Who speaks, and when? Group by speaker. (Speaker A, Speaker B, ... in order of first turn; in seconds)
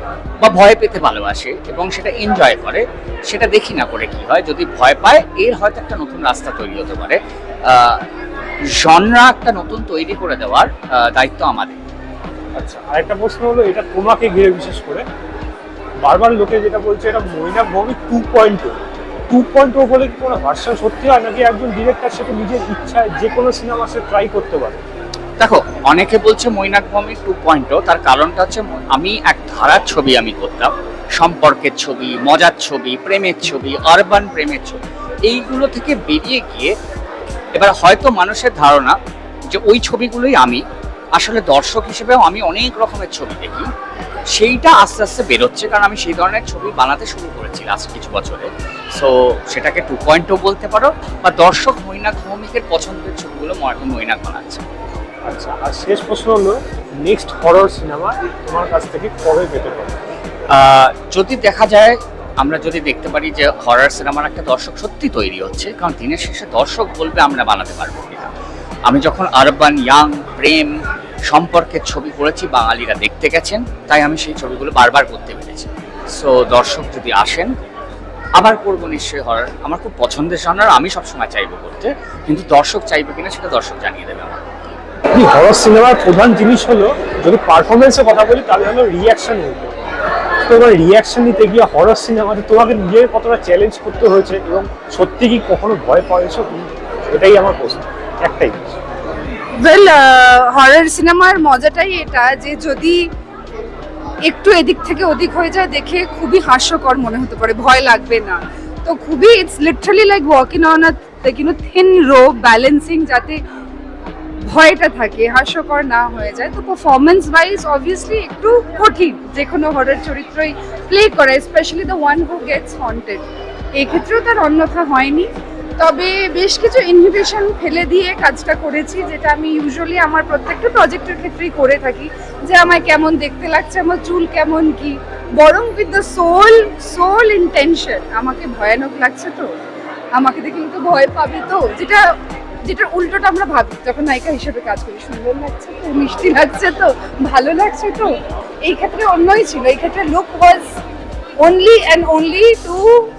Speaker A: 0.4-8.1, 8.7-11.8, 25.4-36.7, 37.5-39.0, 39.5-40.6, 41.2-43.7, 44.4-54.6, 60.5-68.3, 68.9-70.7, 71.3-77.5, 78.4-84.4
Speaker B: 12.6-15.1, 16.1-18.8, 19.3-24.8, 55.3-60.0, 85.1-89.7, 90.5-98.6
Speaker C: 99.6-103.0, 104.3-113.4, 114.5-123.2, 123.8-125.3, 125.8-139.5, 140.2-142.0, 142.7-150.8, 151.4-152.9